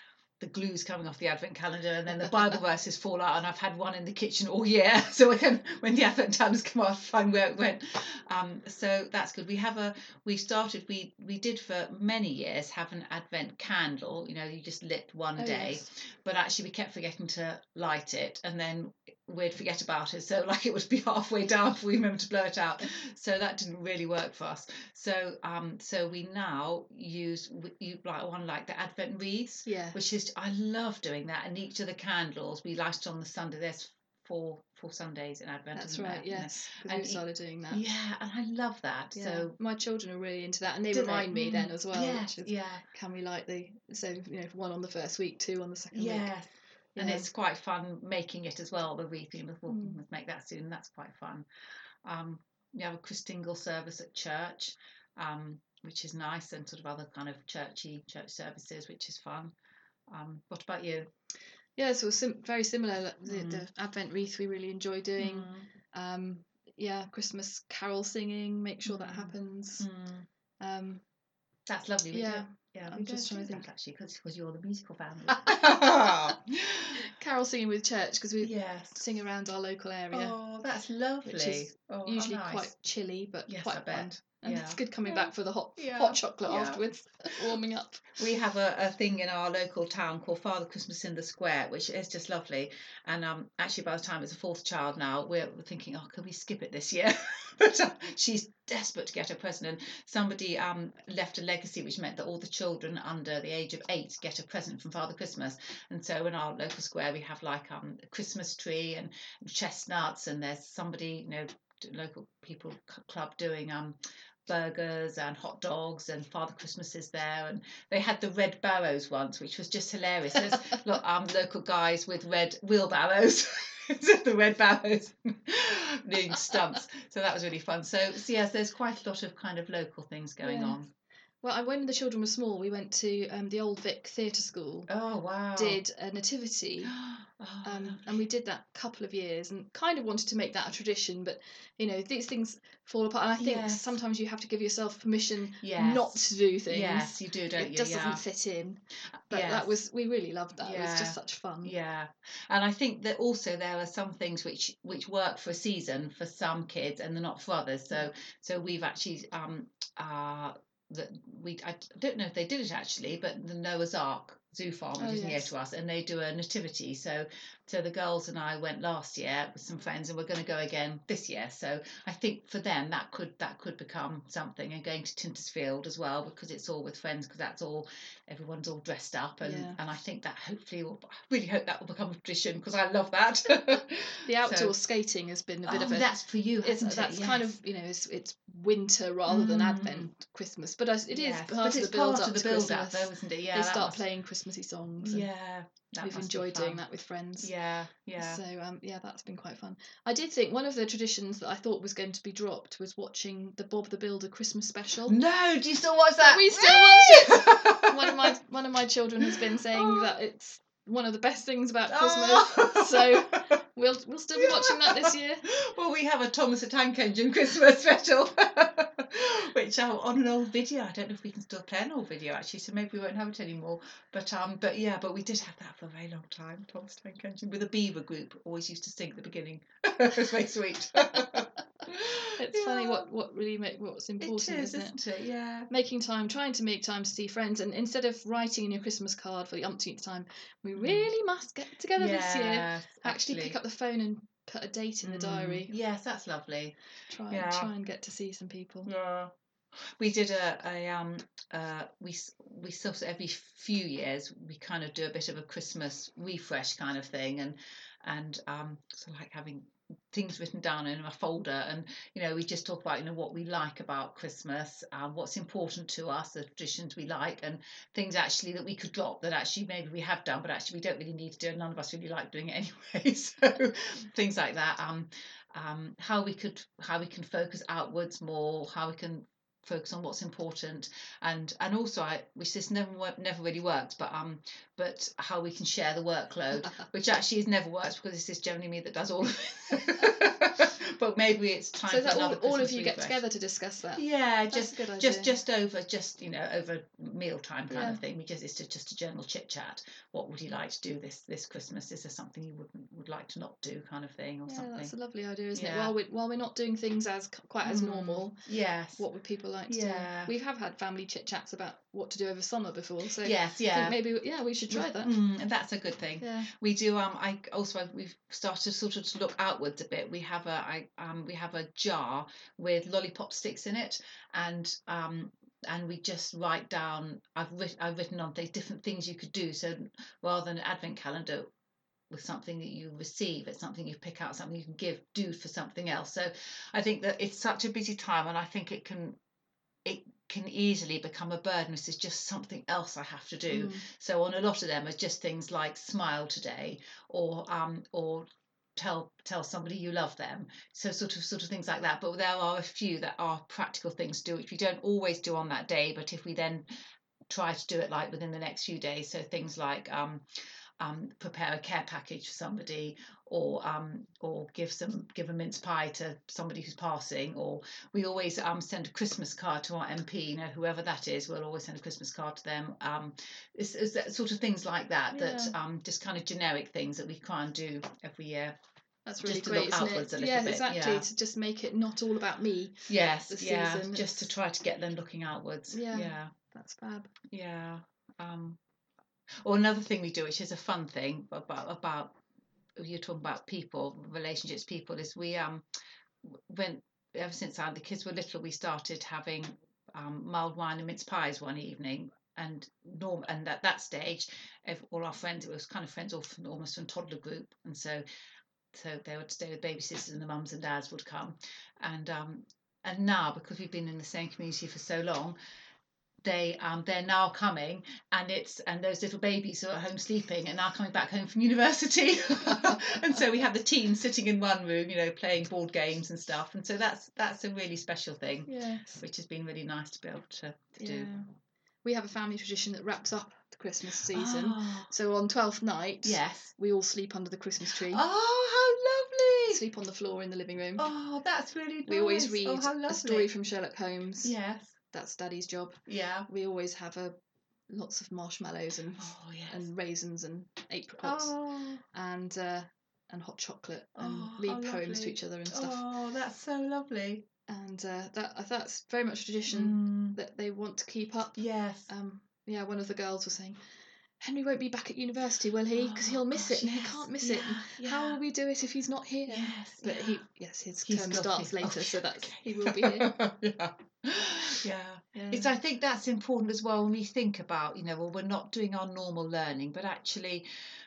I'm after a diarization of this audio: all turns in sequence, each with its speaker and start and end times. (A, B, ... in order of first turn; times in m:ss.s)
0:00.4-0:39.6 A
0:15.4-0:15.8 B
0:29.7-0:30.0 B
0:35.7-0:37.9 B
0:39.1-0:46.3 B
0:40.9-0:42.8 A
0:45.9-0:51.4 A
0:47.0-0:47.3 B
0:49.7-0:50.0 B
0:52.0-0:59.5 A
1:00.1-1:01.1 A
1:01.8-1:09.8 B
1:03.2-1:03.6 A
1:05.2-1:05.7 A
1:08.8-1:10.3 A
1:10.6-1:11.0 B
1:11.7-1:17.1 A
1:12.1-1:13.7 B
1:15.3-1:16.3 B
1:17.0-1:20.4 B
1:18.4-1:19.0 A
1:20.1-1:22.7 A
1:21.2-1:28.2 B
1:23.5-1:26.8 A
1:28.2-2:10.9 A
2:10.4-2:10.8 B
2:11.4-2:14.9 B
2:14.9-2:15.8 A
2:15.6-2:16.9 B
2:16.8-2:18.2 A
2:17.6-2:31.7 B
2:23.4-2:23.9 A
2:25.6-2:28.2 A
2:29.3-2:29.8 A
2:30.6-3:04.7 A
2:45.0-2:45.5 B
2:59.4-2:59.8 B
3:04.2-3:06.1 B
3:05.6-3:07.5 A
3:06.6-3:15.3 B
3:09.3-3:10.1 A
3:11.1-3:14.0 A
3:15.0-3:16.8 A
3:16.0-3:17.5 B
3:17.4-3:18.4 A
3:18.2-3:25.2 B
3:25.1-3:28.2 A
3:26.2-3:35.4 B
3:29.2-3:30.0 A
3:31.9-3:33.4 A
3:34.4-3:53.0 A
3:52.4-3:55.0 B
3:54.2-3:55.7 A
3:55.7-4:05.7 B
4:00.8-4:01.1 A
4:02.0-4:03.6 A
4:05.0-4:06.8 A
4:07.1-4:08.9 B
4:07.3-4:07.7 A
4:08.8-4:09.3 A
4:10.0-4:53.2 A
4:51.9-4:55.4 B
4:54.0-5:04.9 A
4:57.7-4:58.0 B
5:04.4-5:15.1 B
5:05.5-5:05.9 A
5:07.6-5:09.0 A
5:09.7-5:10.3 A
5:13.2-5:14.0 A
5:14.7-5:31.5 A
5:16.2-5:16.5 B
5:32.1-5:39.2 A
5:39.8-5:56.6 A
5:43.5-5:43.8 B
5:57.3-6:00.2 A
6:00.8-6:18.5 A
6:15.1-6:15.6 B
6:19.0-6:24.3 B
6:19.2-6:21.0 A
6:22.9-6:26.3 A
6:25.7-6:27.1 B
6:27.3-6:28.6 A
6:29.4-6:32.1 A
6:32.8-6:35.6 A
6:36.2-6:48.0 A
6:48.7-6:55.4 A
6:56.2-7:11.1 A
7:08.5-7:09.0 B
7:10.8-7:11.3 B
7:11.8-7:18.0 B
7:14.1-7:14.9 A
7:16.0-7:16.5 A
7:17.8-7:19.6 A
7:19.5-7:20.9 B
7:20.8-7:23.3 A
7:21.8-7:24.3 B
7:24.2-7:24.7 A
7:24.9-7:27.1 B
7:25.9-7:26.3 A
7:27.7-7:31.4 B
7:29.0-7:29.6 A
7:31.0-7:31.8 A
7:31.9-7:35.8 B
7:34.0-7:37.2 A
7:37.5-7:43.6 B
7:39.5-7:40.2 A
7:41.4-7:41.9 A
7:44.2-7:53.1 B
7:45.7-7:48.2 A
7:49.3-7:50.2 A
7:50.8-8:00.4 A
7:55.1-7:55.5 B